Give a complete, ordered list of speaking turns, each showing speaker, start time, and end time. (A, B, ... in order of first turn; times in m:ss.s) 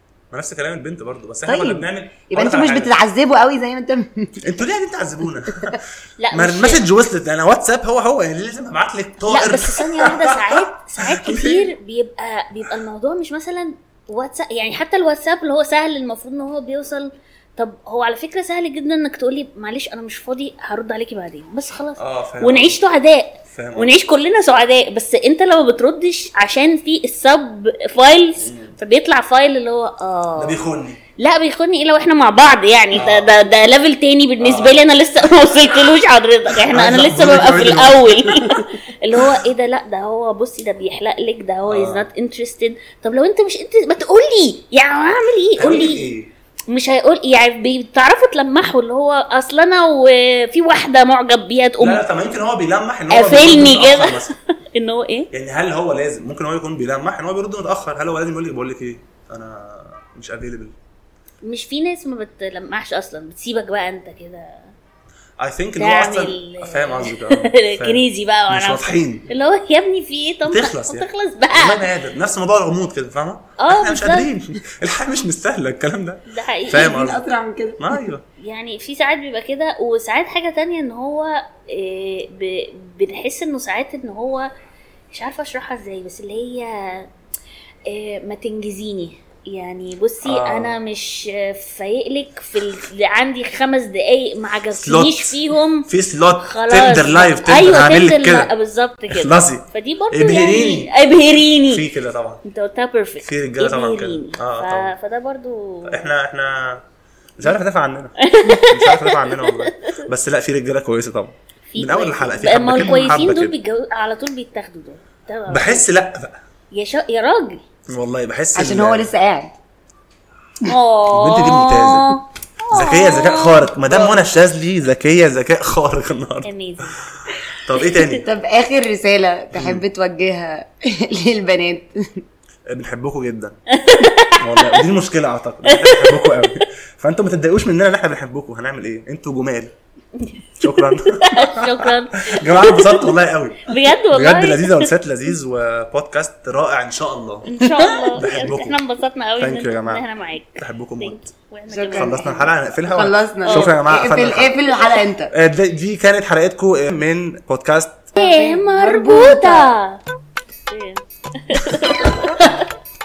0:00.3-0:02.9 A
0:01.4-0:04.4 B
0:04.4-0:11.7 A
0:05.5-0:05.8 B
0:06.2-0:06.8 C
0:09.3-0:30.6 C
0:22.0-0:22.8 A
0:23.5-0:24.0 A
0:28.4-0:28.8 A
0:30.4-0:31.0 A
0:31.2-0:46.1 C
0:32.9-0:33.4 A
0:34.4-0:34.8 A
0:36.5-0:39.4 A
0:41.7-0:42.1 A
0:45.6-0:46.3 A
0:46.7-0:52.0 C
0:51.8-0:54.4 A
0:53.1-0:55.3 C
0:55.3-1:00.7 A
1:01.4-1:04.7 C
1:05.4-1:09.2 A
1:05.8-1:11.8 C
1:10.4-1:17.3 A
1:13.6-1:14.3 C
1:16.3-1:17.0 C
1:16.7-1:18.1 B
1:17.8-1:18.2 A
1:18.4-1:24.5 C
1:25.1-1:27.1 C
1:27.8-1:35.9 C
1:30.2-1:30.8 A
1:34.7-1:38.5 A
1:36.4-1:41.8 C
1:39.1-1:40.9 A
1:41.7-1:42.4 A
1:42.4-1:46.1 C
1:43.2-1:44.9 A
1:45.9-1:46.8 A
1:47.4-1:53.6 A
1:48.2-1:50.0 C
1:51.7-1:55.9 C
1:55.5-1:56.4 A
1:56.7-1:57.6 C
1:57.9-1:59.1 A
1:58.5-1:59.6 B
2:00.6-2:04.2 C
2:01.1-2:02.2 A
2:02.7-2:08.2 A
2:06.4-2:07.0 C
2:07.7-2:08.2 C
2:08.2-2:12.2 B
2:09.5-2:09.8 A
2:12.7-2:13.6 A
2:13.7-2:14.8 C
2:14.4-2:19.7 A
2:15.6-2:16.5 C
2:20.6-2:28.8 A
2:21.1-2:23.1 C
2:23.6-2:24.9 C
2:27.5-2:32.2 C
2:27.6-2:27.9 B
2:29.4-2:30.0 A
2:30.6-2:31.3 A
2:31.7-2:35.3 B
2:31.9-2:34.6 A
2:33.4-2:33.7 C
2:35.3-2:38.1 A
2:38.1-2:39.7 B
2:38.2-2:40.0 C
2:40.5-2:42.6 C